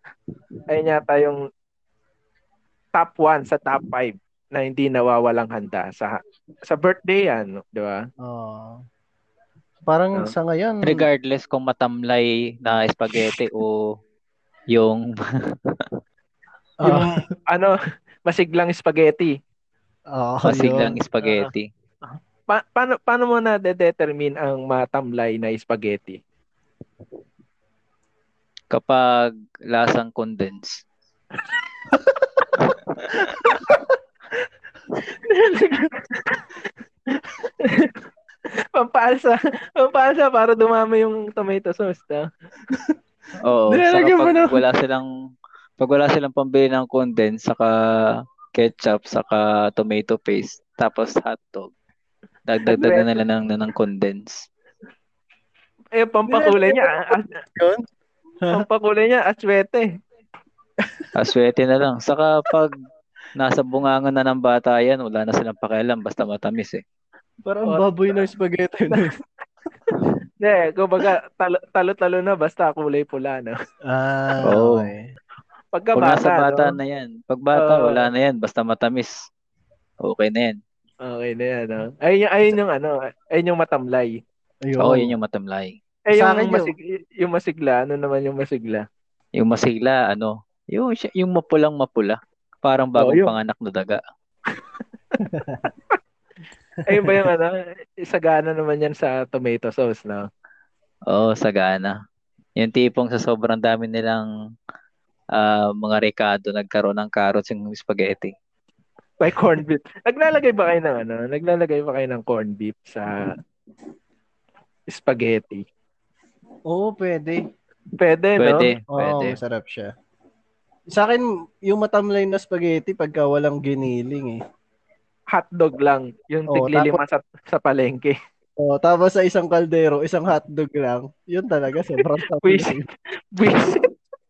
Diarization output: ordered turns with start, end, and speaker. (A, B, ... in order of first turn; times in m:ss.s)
0:00.7-0:01.4 A
0:03.0-0:06.2 A
0:06.7-0:08.0 A
0:08.2-0:08.8 B
0:09.9-0:11.0 B
0:10.8-0:13.8 C
0:14.7-0:15.8 C
0:16.8-0:17.2 B
0:16.8-0:17.7 A
0:18.2-0:19.3 A
0:20.1-0:21.0 B
0:20.4-0:21.7 C
0:21.2-0:21.5 A
0:22.0-0:26.2 A
0:28.7-0:30.8 C
0:35.2-0:36.4 A
0:37.1-0:37.9 A
0:38.7-0:42.2 A
0:42.7-0:43.0 B
0:43.4-0:45.1 C
0:43.7-0:44.6 B
0:45.8-0:47.7 C
0:48.6-0:51.7 C
0:52.5-0:54.4 C
0:52.8-0:53.0 A
0:56.0-0:57.2 A
0:56.3-0:57.8 B
0:58.5-0:59.8 A
1:00.8-1:01.1 B
1:01.2-1:02.7 C
1:03.4-1:06.8 C
1:07.4-1:09.2 B
1:10.4-1:13.5 A
1:13.9-1:15.0 B
1:14.4-1:14.9 C
1:15.7-1:16.8 A
1:16.0-1:19.1 C
1:17.6-1:18.1 A
1:20.0-1:20.6 C
1:21.0-1:24.1 A
1:24.6-1:25.1 B
1:24.8-1:25.7 C
1:26.1-1:28.8 A
1:26.1-1:26.7 B
1:29.4-1:34.0 C
1:33.0-1:33.3 A
1:35.2-1:35.6 B
1:36.8-1:37.5 A
1:38.0-1:40.2 A
1:41.1-1:41.9 C
1:42.6-1:44.3 C
1:45.3-1:48.3 C
1:49.2-1:53.1 A
1:54.9-1:55.6 A
1:56.7-1:57.4 B
1:58.0-1:58.7 A
1:58.4-1:59.4 C
1:58.9-1:59.9 B
2:00.9-2:04.4 B
2:05.3-2:08.1 A
2:06.5-2:07.0 B
2:08.6-2:12.8 B
2:12.4-2:12.8 A
2:13.4-2:13.8 A